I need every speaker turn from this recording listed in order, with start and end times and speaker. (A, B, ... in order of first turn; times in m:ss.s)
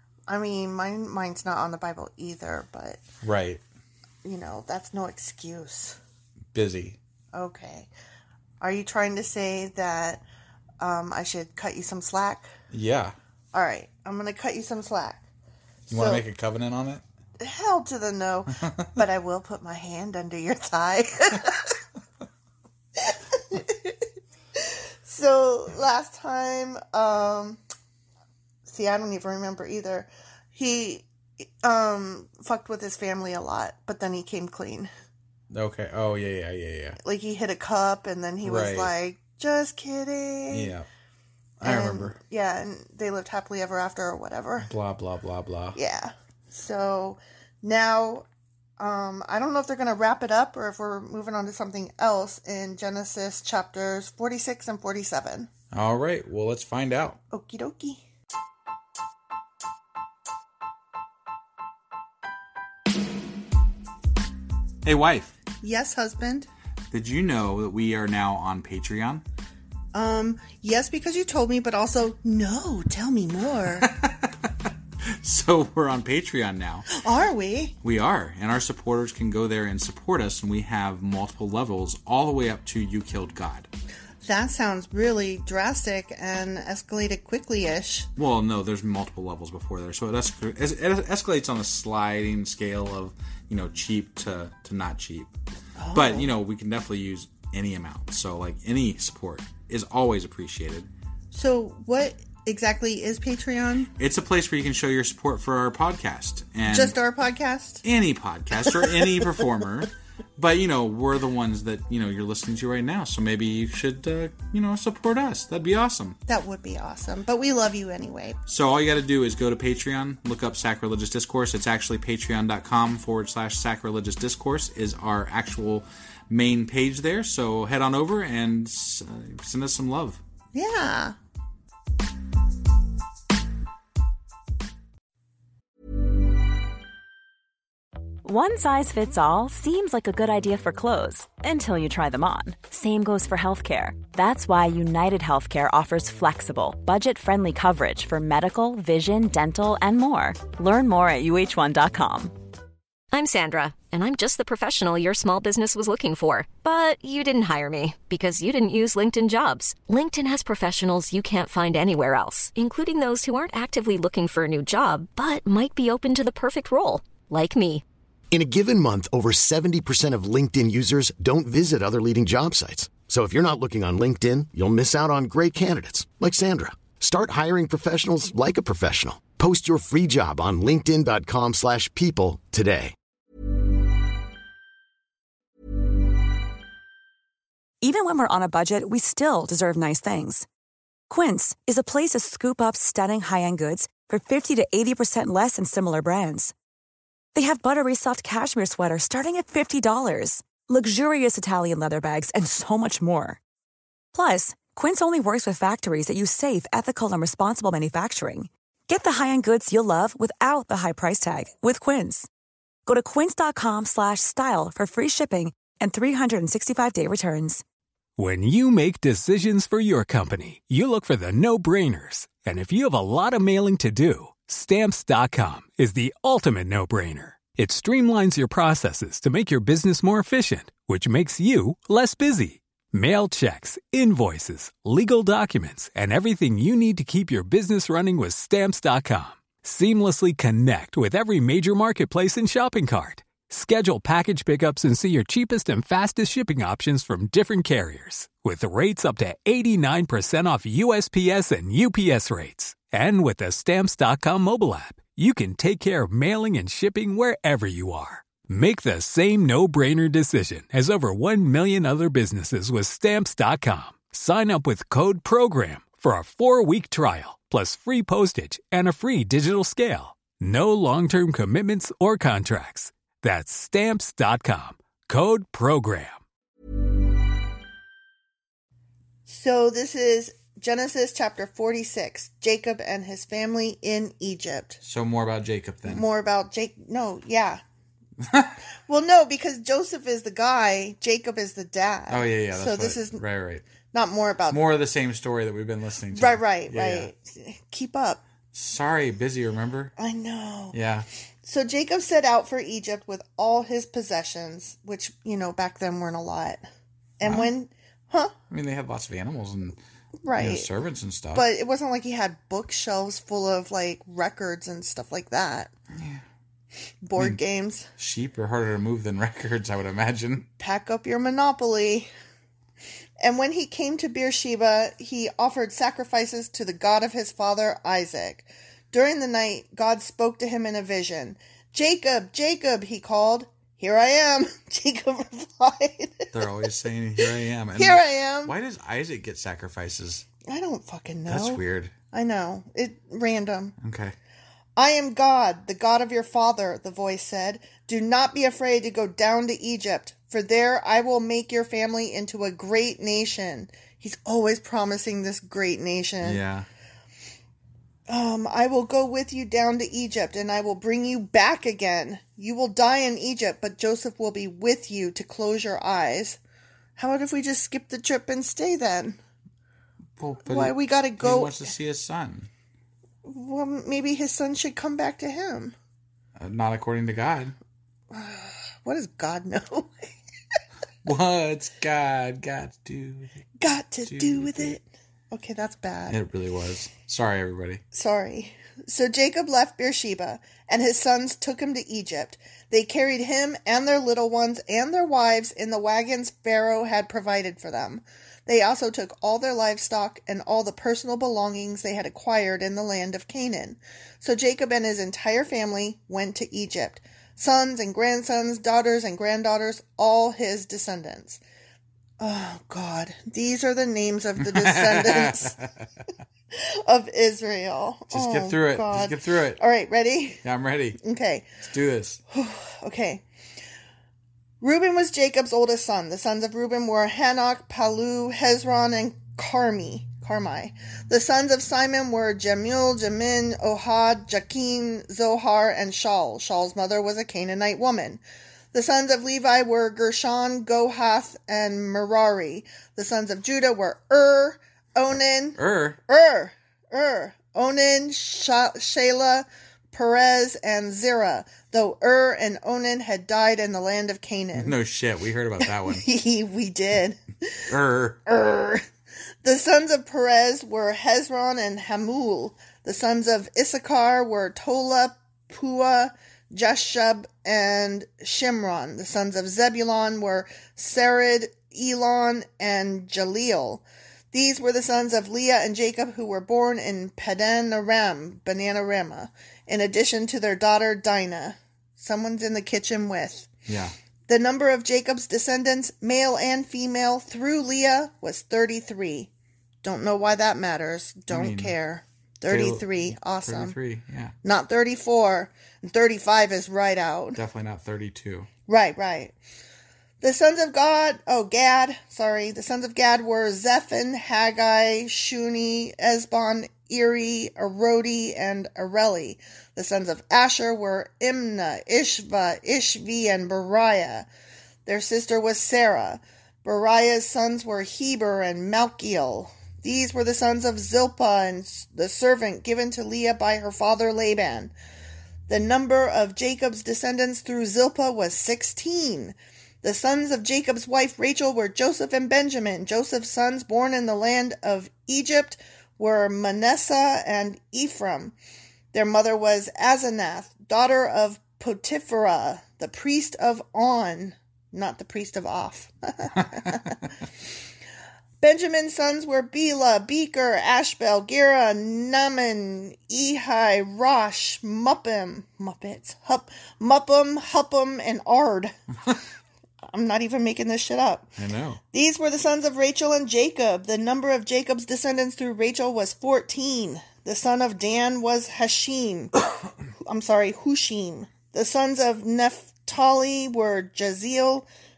0:00.3-0:03.0 A
0:03.2-0:03.6 B
0:04.2-0:06.0 A
0:06.5-0:07.0 B
0:07.3-0:07.9 A
0:08.6-0:10.2 A
0:10.8-0:12.5 A
0:12.7-0:13.1 B
0:13.5-0:15.2 A
0:15.9-0:16.2 A
0:15.9-0:17.0 B
0:17.4-0:21.7 A
0:23.0-0:24.0 A
0:24.6-0:27.6 A
0:28.6-0:34.9 A
0:35.5-0:37.0 B
0:37.0-0:40.7 A
0:38.4-0:38.9 B
0:40.5-0:40.9 B
0:41.6-0:42.2 B
0:41.6-0:44.7 A
0:44.6-0:45.8 B
0:45.7-0:48.2 A
0:48.8-0:55.5 A
0:55.7-0:57.2 B
0:57.3-0:58.0 A
1:04.8-1:05.4 B
1:05.6-1:06.5 A
1:06.9-1:09.2 B
1:09.9-1:13.9 A
1:13.8-1:14.5 B
1:15.2-1:16.8 B
1:16.9-1:17.7 A
1:17.8-1:23.7 B
1:24.2-1:28.1 A
1:28.2-1:35.3 B
1:35.8-1:36.3 A
1:35.9-1:40.9 B
1:41.3-1:43.9 A
1:44.0-1:47.0 B
1:46.7-1:47.8 A
1:47.8-1:56.2 B
1:48.7-1:49.1 A
1:56.3-1:58.4 A
1:58.5-2:10.2 B
2:10.5-2:11.2 A
2:18.2-2:32.3 C
2:33.1-2:47.8 D
2:48.3-3:02.9 E
3:07.8-3:10.5 F
3:11.1-3:16.5 F
3:17.3-3:23.4 F
3:24.1-3:32.3 F
3:32.8-3:37.6 F
3:38.2-4:36.2 G
4:39.3-4:44.8 A
4:44.8-4:46.0 B
4:45.8-4:47.6 A
4:48.2-4:48.6 B
4:48.9-4:53.2 A
4:52.1-4:53.6 B
4:53.9-4:54.6 A
4:54.5-4:57.1 B
4:56.1-4:58.2 A
4:58.5-4:59.9 B
5:00.0-5:00.8 A
5:00.7-5:01.1 B
5:01.4-5:06.6 A
5:07.2-5:08.3 A
5:07.2-5:07.5 B
5:08.5-5:09.8 B
5:10.2-5:10.7 A
5:10.4-5:11.4 B
5:11.3-5:15.7 A
5:15.9-5:16.2 B
5:17.0-5:17.9 A
5:18.0-5:20.5 B
5:20.6-5:22.1 A
5:23.2-5:36.7 A
5:36.3-5:40.2 B
5:37.8-5:38.5 A
5:40.5-5:43.7 A
5:41.3-5:41.9 B
5:43.8-5:44.1 B
5:44.8-5:56.4 A
5:56.2-5:56.7 B
5:58.1-6:06.4 A
6:07.0-6:09.2 A
6:10.2-6:12.5 B
6:10.4-6:11.7 A
6:13.2-6:15.7 A
6:16.4-6:17.6 B
6:18.1-6:20.1 A
6:21.0-6:24.8 B
6:23.6-6:26.2 A
6:26.1-6:27.8 B
6:27.9-6:51.4 A
6:52.2-6:55.6 A
6:54.4-6:55.7 B
6:56.5-7:00.4 A
6:58.1-6:59.6 B
7:00.4-7:01.0 B
7:01.0-7:01.5 A
7:01.6-7:02.2 B
7:02.3-7:03.2 A
7:04.6-7:18.2 A
7:18.7-7:34.7 A
7:25.6-7:26.0 B
7:34.5-7:36.0 B
7:35.6-7:37.2 A
7:37.7-7:38.2 B
7:38.2-7:38.8 A
7:39.4-8:03.5 A
8:03.7-8:03.9 B
8:04.3-8:09.3 A
8:09.8-8:13.8 A
8:11.3-8:11.7 B
8:12.5-8:14.3 B
8:14.4-8:17.4 A
8:17.4-8:18.5 B
8:18.7-8:19.3 A
8:20.2-8:34.3 A
8:34.8-8:44.7 A
8:45.5-8:58.4 A
8:58.9-9:07.0 A
9:08.4-9:18.7 A
9:19.9-9:21.3 A
9:21.4-9:21.8 B
9:21.9-9:29.3 A
9:30.0-9:34.7 A